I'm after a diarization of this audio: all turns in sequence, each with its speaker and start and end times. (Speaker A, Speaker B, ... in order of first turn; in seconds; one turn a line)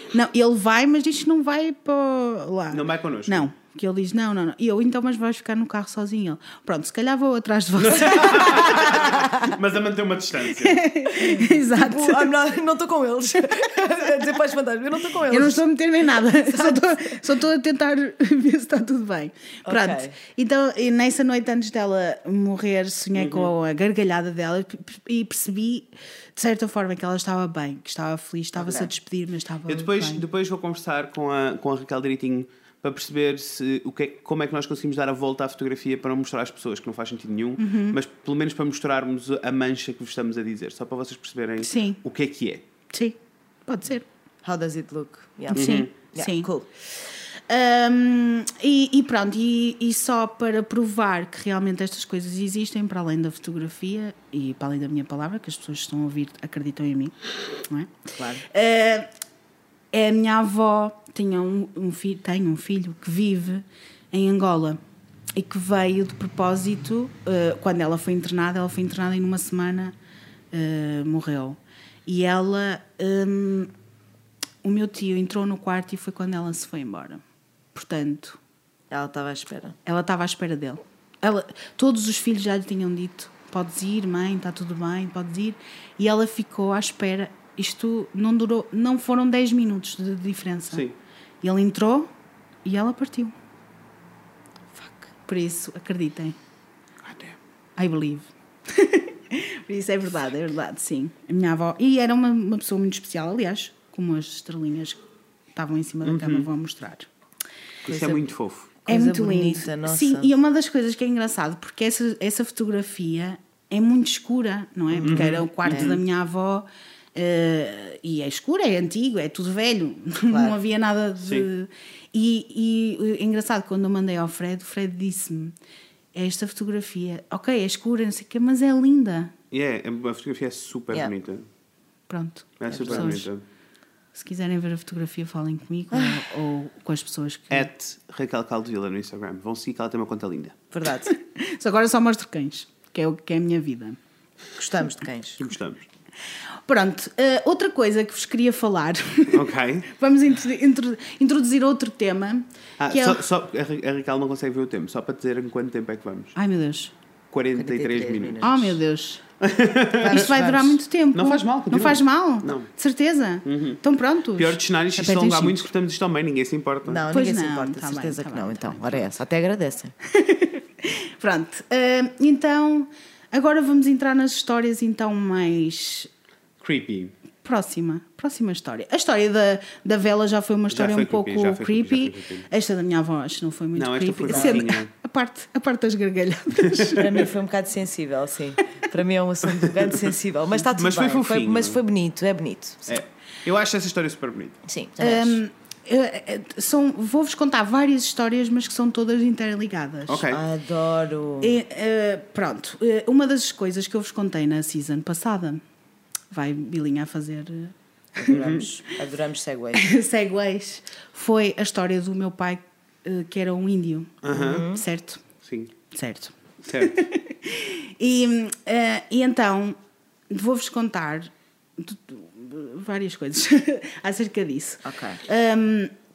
Speaker A: 0.1-9.1
Speaker B: 2.7-3.5
Speaker B: 7.8-10.8
Speaker C: 8.2-9.4
Speaker A: 10.6-12.3
Speaker C: 11.2-15.6
Speaker A: 15.3-30.2
Speaker C: 16.1-17.2
Speaker C: 19.7-20.2
Speaker B: 23.2-23.5
Speaker C: 28.6-28.9
Speaker B: 29.7-42.6
Speaker A: 37.6-38.0
Speaker A: 41.6-42.0
Speaker A: 42.9-44.1
Speaker C: 44.4-46.7
Speaker A: 45.5-46.5
Speaker B: 45.6-45.9
Speaker A: 47.0-59.1
Speaker C: 58.1-58.4
Speaker A: 59.9-64.8
Speaker A: 65.3-69.9
Speaker A: 70.5-73.7
Speaker A: 74.6-77.2
Speaker A: 77.8-78.4
Speaker C: 78.9-79.8
Speaker A: 79.8-90.9
Speaker B: 90.7-91.0
Speaker A: 91.4-92.1
Speaker A: 92.7-93.3
Speaker A: 94.8-96.4
Speaker B: 97.0-97.4
Speaker A: 97.8-105.0
Speaker A: 105.5-107.1
Speaker B: 106.0-106.5
Speaker B: 107.8-108.7
Speaker C: 107.9-108.2
Speaker C: 108.9-110.3
Speaker A: 108.9-125.6
Speaker C: 114.9-116.0
Speaker B: 115.0-116.0
Speaker C: 120.3-120.6
Speaker B: 121.2-121.5
Speaker A: 126.1-129.3
Speaker B: 129.5-131.4
Speaker A: 132.1-133.3
Speaker B: 132.6-133.4
Speaker C: 132.7-133.2
Speaker A: 134.2-137.7
Speaker C: 135.9-136.2
Speaker B: 137.5-140.6
Speaker C: 140.7-141.1
Speaker A: 141.1-144.0
Speaker C: 144.6-145.5
Speaker B: 145.4-145.8
Speaker A: 146.7-153.2
Speaker B: 149.3-149.9
Speaker B: 152.8-156.3
Speaker A: 156.3-156.9
Speaker B: 157.3-158.8
Speaker C: 157.6-158.5
Speaker A: 158.4-159.2
Speaker B: 159.4-160.3
Speaker C: 160.0-160.8
Speaker A: 160.1-165.7
Speaker B: 161.1-162.7
Speaker B: 163.4-163.8
Speaker B: 164.4-167.0
Speaker C: 166.8-169.9
Speaker A: 167.1-169.0
Speaker A: 170.1-176.1
Speaker B: 176.6-177.1
Speaker A: 177.4-187.3
Speaker B: 180.7-182.5
Speaker B: 183.8-184.9
Speaker C: 184.3-184.7
Speaker C: 186.9-193.0
Speaker B: 190.6-191.8
Speaker B: 192.9-194.6
Speaker C: 194.7-195.4
Speaker A: 195.0-200.3
Speaker B: 200.1-200.4
Speaker C: 200.3-201.6
Speaker A: 201.4-205.6
Speaker A: 206.3-208.6
Speaker C: 208.2-209.9
Speaker B: 208.3-208.7
Speaker A: 209.8-215.2
Speaker B: 214.2-214.7
Speaker C: 214.3-214.8
Speaker B: 215.4-215.7
Speaker A: 215.9-219.8
Speaker B: 216.7-216.9
Speaker A: 220.3-225.9
Speaker C: 224.8-225.2